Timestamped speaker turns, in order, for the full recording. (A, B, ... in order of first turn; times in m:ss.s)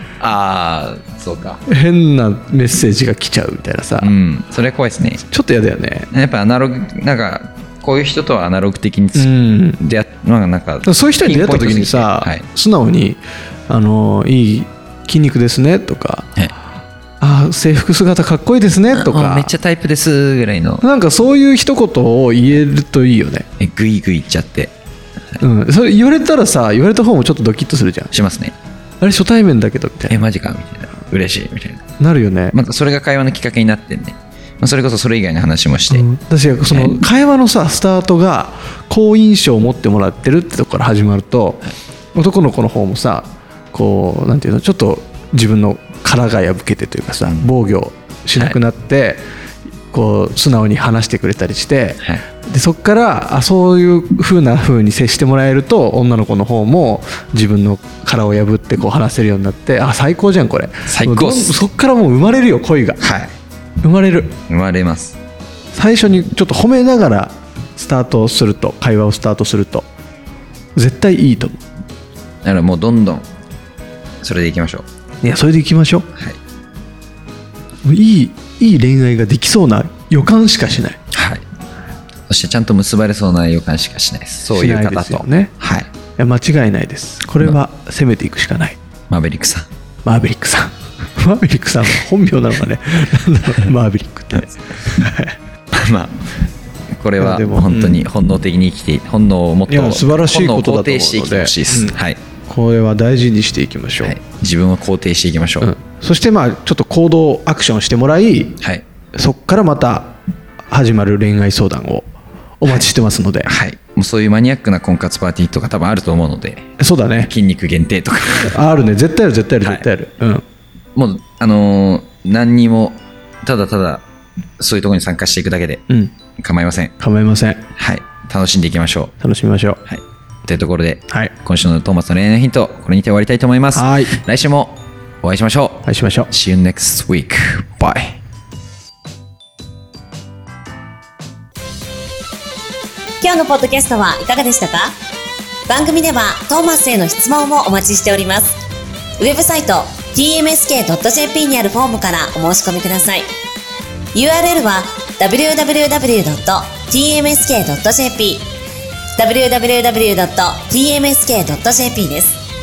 0:00.2-0:01.6 A
0:01.7-0:04.1 B
0:04.0-0:05.2 A
0:05.3-0:06.1 B
0:06.1-0:12.4 A
0:09.1-0:09.8 B
0:10.8-0:16.4 B
0:17.2-0:19.5 B
0:18.9-0:20.8 A
0:20.8-0:23.4 B
0:23.6-0:24.7 A
0:25.4-0:28.1 B
0:28.1-0:28.5 A
0:29.0-0:30.2 B
0:30.1-0:31.8 A
0:32.0-0:32.6 B
0:32.5-0:36.0 A
0:35.9-0:49.2 B
0:36.6-0:37.0 A
0:47.2-0:47.5 A
0:49.9-1:03.0 B
1:00.9-1:01.6 A
1:03.0-1:03.3 A
1:03.8-1:04.3 B
1:04.5-1:05.2 A
1:05.7-1:09.8 B
1:10.8-1:11.6 B
1:12.4-1:13.3 A
1:14.2-1:14.8 A
1:15.2-1:16.1 B
1:17.8-1:21.0 B
1:21.1-1:21.4 A
1:22.3-1:25.9 A
1:24.5-1:25.5 B
1:26.2-1:28.8 B
1:29.1-1:29.7 A
1:30.0-1:35.4 B
1:35.7-1:36.2 A
1:37.0-1:42.2 A
1:37.2-1:38.0 B
1:39.7-1:44.1 B
1:44.0-1:45.7 A
1:45.6-1:48.6 B
1:49.1-1:50.1 B
1:50.7-1:52.1 B
1:52.6-1:53.5 B
1:52.6-1:52.9 A
1:53.4-1:58.6 A
1:56.8-1:57.3 B
1:58.5-2:00.4 B
1:59.6-1:59.9 A
2:01.0-2:04.0 A
2:04.6-2:05.8 A
2:06.4-2:06.9 A
2:07.0-2:07.6 B
2:07.8-2:09.1 A
2:09.2-2:09.8 B
2:09.8-2:18.2 A
2:13.7-2:14.1 B
2:15.9-2:16.3 B
2:23.2-2:24.9 C
2:25.7-2:28.6 C
2:29.2-2:33.3 C
2:34.1-2:38.5 C
2:39.1-2:42.4 C